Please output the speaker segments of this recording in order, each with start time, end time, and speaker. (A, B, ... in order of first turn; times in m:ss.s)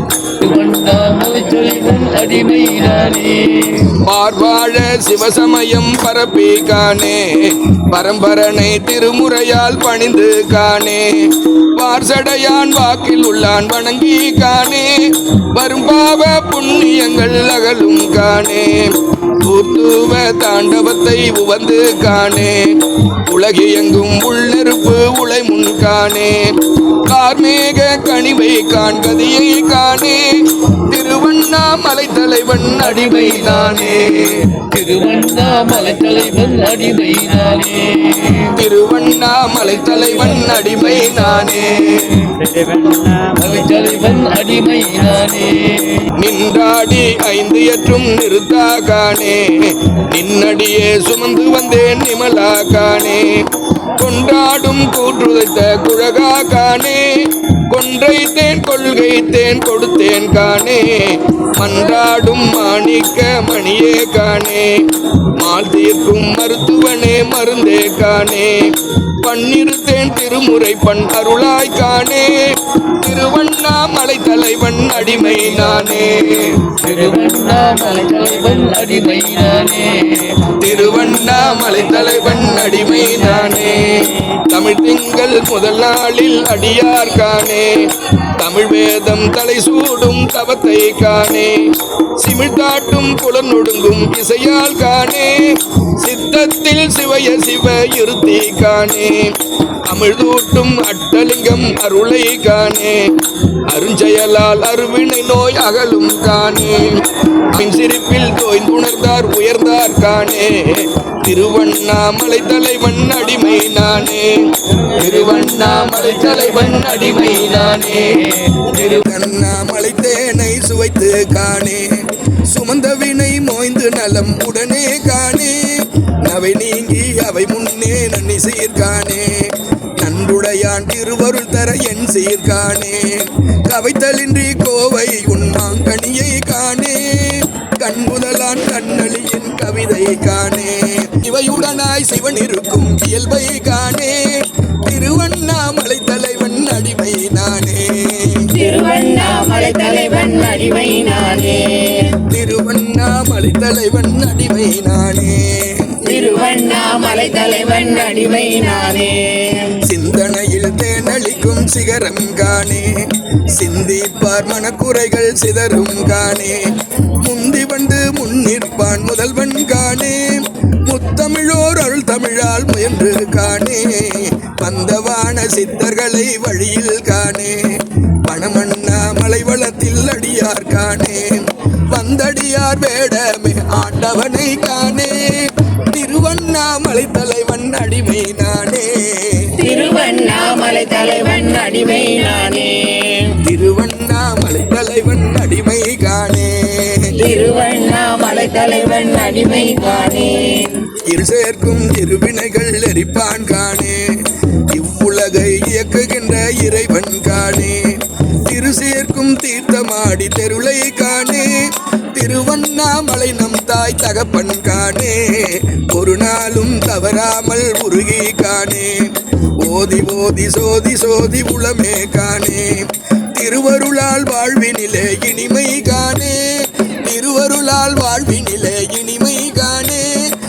0:00.4-0:03.9 A
0:04.0-0:15.0 B
0:15.5-0:34.6 B
0:32.8-0:38.5 A
0:38.5-0:42.3 B
0:42.7-0:46.1 A
0:46.2-0:53.4 B
0:54.0-1:04.8 B
1:05.4-1:16.8 B
1:16.8-1:20.5 A
1:20.6-1:39.3 B
1:39.8-1:43.1 B
1:43.7-2:05.7 B
1:55.0-1:57.4 A
2:06.2-2:24.2 B
2:24.8-2:28.5 B
2:28.5-2:32.2 C
2:32.2-2:36.0 B
2:36.0-2:39.8 C
2:39.8-2:42.9 B
2:43.5-3:09.5 B
3:09.6-3:13.3 C
3:13.4-3:17.1 B
3:17.2-3:20.8 C
3:21.0-3:24.1 B
3:24.7-3:46.5 B
3:47.0-3:50.2 B